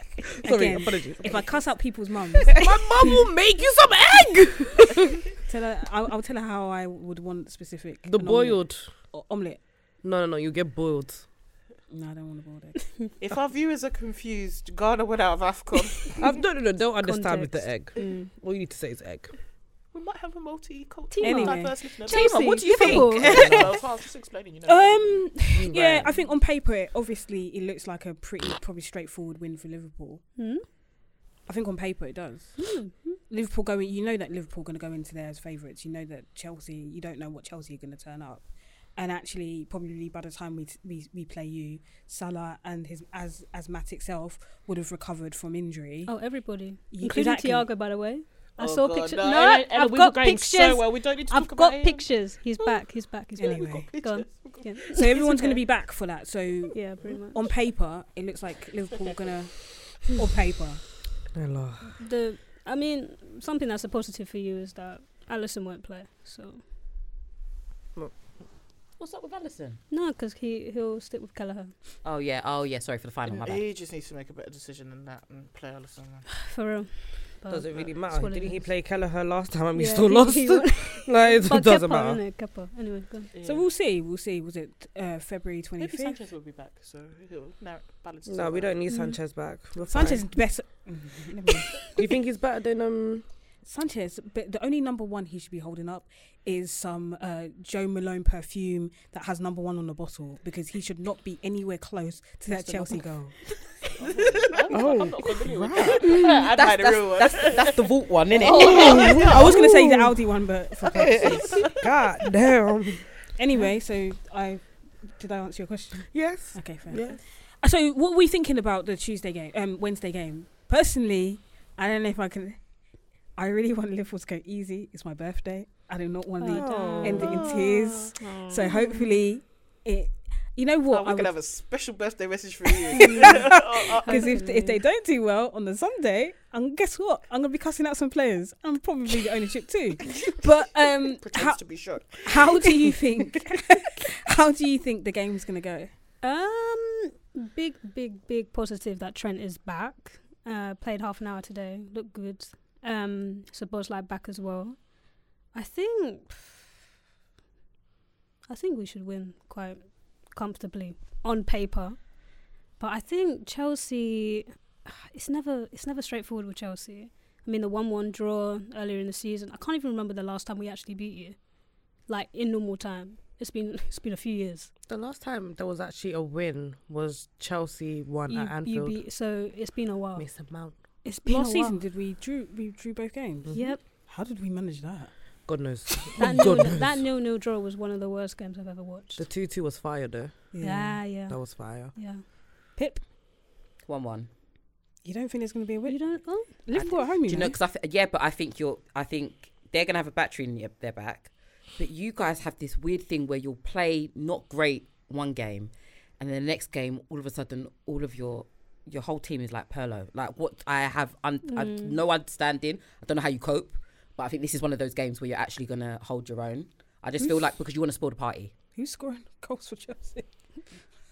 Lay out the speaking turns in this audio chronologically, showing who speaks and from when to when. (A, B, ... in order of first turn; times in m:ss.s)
0:00.2-0:01.6 A
0:00.4-0:02.6 B
0:02.4-0:05.2 A
0:05.4-0:09.6 B
0:08.1-0:08.9 A
0:10.0-0:11.3 A
0:11.9-0:12.9 B
0:13.2-0:16.2 C
0:16.2-0:19.3 A
0:17.0-0:18.3 D
0:19.9-0:25.4 C
0:21.1-0:23.7 D
0:21.2-0:21.8 B
0:22.1-0:23.6 E
0:23.0-0:23.7 A
0:24.6-0:30.2 B
0:25.5-0:26.1 A
0:30.4-0:30.6 D
0:31.5-0:46.1 B
0:32.6-0:33.2 D
0:46.1-0:55.3 D
0:46.9-0:47.7 B
0:48.6-0:52.7 C
0:53.4-0:55.6 C
0:53.4-0:53.9 B
0:54.9-1:00.8 B
0:56.7-0:57.4 D
0:59.0-0:59.3 C
1:01.3-1:02.0 A
1:02.0-1:06.6 D
1:09.0-1:09.8 E
1:09.9-1:11.7 D
1:12.0-1:13.6 E
1:13.3-1:16.2 C
1:16.4-1:18.7 D
1:17.5-1:22.2 A
1:19.7-1:23.3 D
1:23.3-1:23.7 C
1:23.4-1:26.2 B
1:25.8-1:28.7 C
1:28.2-1:30.2 A
1:28.9-1:29.2 D
1:29.8-1:31.9 B
1:31.9-1:33.2 A
1:33.6-1:43.4 B
1:42.5-1:43.0 E
1:44.0-1:47.8 C
1:44.7-1:46.1 A
1:46.0-1:49.4 E
1:48.4-1:49.4 C
1:48.4-1:50.1 A
1:48.6-1:51.8 B
1:50.9-1:51.7 E
1:51.2-1:51.6 C
1:51.7-1:53.0 A
1:53.4-2:02.6 B
1:56.1-1:57.2 A
2:03.4-2:11.3 B
2:06.4-2:07.5 D
2:06.5-2:07.3 A
2:07.2-2:08.2 C
2:08.2-2:09.1 D
2:10.9-2:14.4 C
2:12.9-2:14.8 D
2:12.9-2:25.9 B
2:21.1-2:23.0 C
2:26.2-2:36.6 D
2:38.5-2:54.7 D
2:54.9-2:59.0 A
2:58.3-3:01.8 D
3:00.2-3:00.8 A
3:01.2-3:05.1 B
3:03.5-3:03.7 A
3:03.5-3:03.8 D
3:05.4-3:07.0 A
3:06.2-3:09.2 D
3:09.2-3:10.6 A
3:10.5-3:11.0 B
3:10.6-3:12.2 D
3:11.3-3:11.9 A
3:12.8-3:13.0 B
3:13.8-3:14.3 E
3:15.0-3:17.6 B
3:15.8-3:16.6 D
3:16.7-3:38.5 E
3:31.5-3:32.0 D
3:38.7-3:40.3 B